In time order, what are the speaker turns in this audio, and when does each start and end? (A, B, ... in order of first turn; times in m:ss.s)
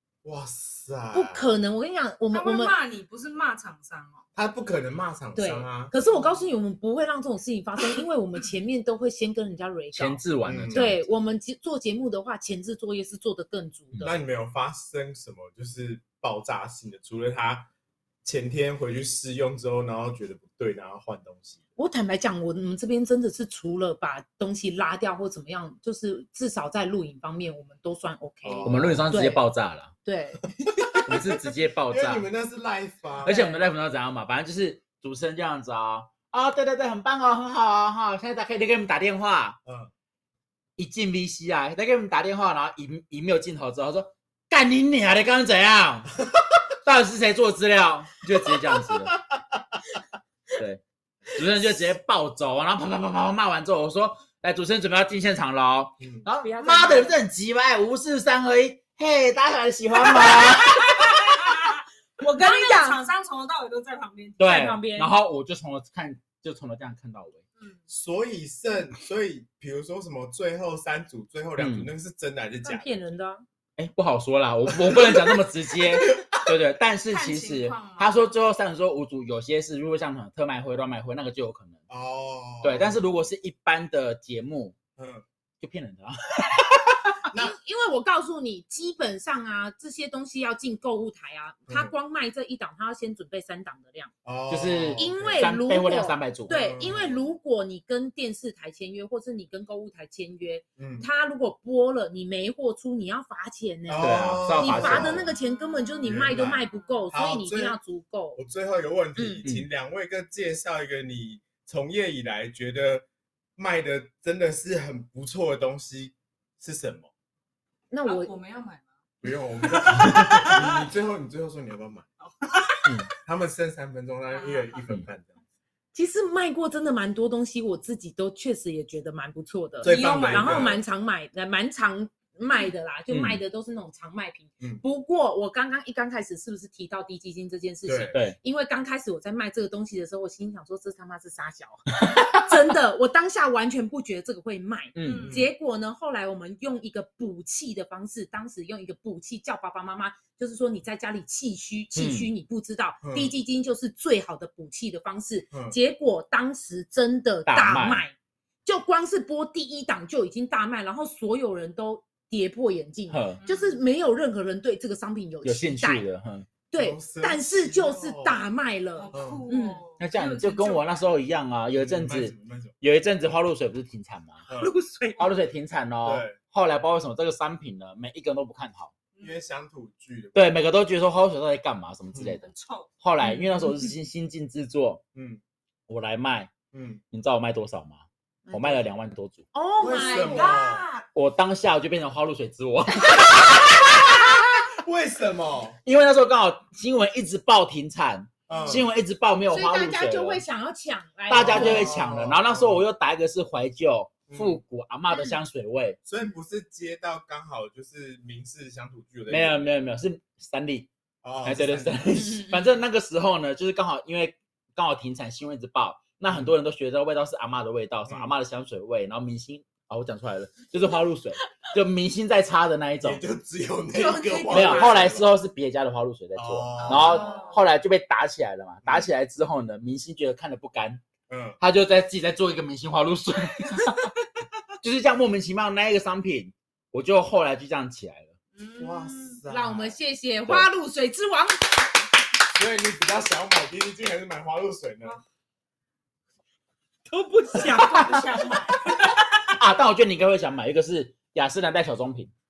0:00.2-0:01.5 A
0:01.1-0:02.7 B
0:02.3-0:04.2 C
0:04.4-0:05.9 A
0:05.4-0:14.2 B
0:09.9-0:11.0 D
0:10.4-0:10.9 A
0:14.0-0:17.7 A
0:18.2-0:21.6 A
0:21.8-0:29.4 B
0:28.4-0:29.0 A
0:28.6-0:29.9 D
0:30.0-0:30.4 B
0:30.6-0:33.4 A
0:31.0-0:32.2 D
0:33.2-0:33.7 B
0:33.2-0:39.6 D
0:39.6-0:39.9 A
0:40.8-0:46.2 D
0:46.8-0:49.2 D
0:51.3-1:01.0 D
0:56.0-0:56.2 A
0:56.3-0:57.2 B
1:00.0-1:00.3 B
1:00.6-1:04.6 C
1:02.2-1:03.0 B
1:04.4-1:07.4 D
1:04.4-1:05.1 B
1:07.9-1:12.9 A
1:11.6-1:11.9 D
1:12.6-1:13.4 B
1:13.8-1:21.8 D
1:14.7-1:15.4 A
1:15.9-1:16.4 A
1:17.1-1:18.3 C
1:21.9-1:23.0 A
1:22.6-1:24.8 D
1:25.0-1:25.2 A
1:25.6-1:27.1 D
1:27.3-1:27.6 A
1:27.3-1:34.1 B
1:31.7-1:31.9 A
1:34.2-1:35.5 A
1:34.5-1:36.5 D
1:35.0-1:48.4 B
1:36.5-1:37.2 A
1:40.8-1:41.1 A
1:43.9-1:45.3 A
1:43.9-1:45.3 D
1:45.4-1:47.2 C
1:46.0-1:46.6 A
1:47.1-1:47.8 A
1:48.3-1:53.0 A
1:49.2-1:49.4 B
1:53.6-1:57.1 A
1:57.9-1:58.3 B
1:58.0-2:00.8 C
1:59.2-2:02.0 A
2:02.2-2:03.0 C
2:03.2-2:05.3 A
2:04.3-2:04.8 C
2:05.9-2:38.1 B
2:09.8-2:10.8 A
2:09.8-2:10.8 C
2:13.1-2:13.4 D
2:17.8-2:18.1 A
2:18.1-2:18.4 D
2:24.9-2:25.3 D
2:25.0-2:25.4 C
2:25.2-2:25.5 A
2:31.9-2:32.3 D
2:33.0-2:33.3 A
2:37.5-2:38.0 D
2:38.6-2:46.0 B
2:43.1-2:43.4 D
2:43.4-2:43.8 C
2:45.4-2:46.5 D
2:46.7-2:49.8 B
2:46.8-2:48.4 A
2:49.0-2:51.1 C
2:49.1-2:49.4 A
2:50.0-2:54.4 D
2:51.7-2:52.7 A
2:54.4-2:54.7 A
2:54.6-2:55.3 B
2:55.2-2:58.9 D
2:56.0-2:56.4 A
2:59.2-3:00.3 A
3:00.3-3:02.5 D
3:02.4-3:02.9 C
3:03.0-3:05.0 D
3:03.2-3:03.7 B
3:05.1-3:05.4 A
3:05.9-3:06.5 D
3:06.7-3:07.0 A
3:07.1-3:09.4 D
3:08.4-3:08.9 B
3:09.5-3:10.6 B
3:09.8-3:10.8 A
3:09.9-3:11.0 C
3:11.1-3:14.4 D
3:14.7-3:15.8 A
3:15.8-3:20.4 D
3:18.5-3:18.9 A
3:19.5-3:22.0 B
3:21.3-3:26.0 D
3:21.3-3:22.8 A
3:24.3-3:24.6 A
3:26.0-3:29.7 A
3:29.3-3:30.9 D
3:31.2-3:32.2 A
3:31.4-3:43.2 D
3:32.3-3:32.6 B
3:38.1-3:38.3 A
3:43.0-3:45.3 A
3:44.0-3:45.0 B
3:44.0-3:44.8 C
3:44.5-3:51.0 D
3:46.3-3:47.4 A
3:46.8-3:47.6 C
3:51.3-3:51.6 A
3:51.6-3:54.1 D
3:54.8-3:58.3 D
3:58.6-3:59.4 C
3:58.8-4:00.0 A
3:59.5-4:01.7 B
4:02.5-4:05.2 A
4:07.1-4:08.6 B
4:07.7-4:09.1 C
4:07.8-4:08.2 D
4:09.4-4:12.3 D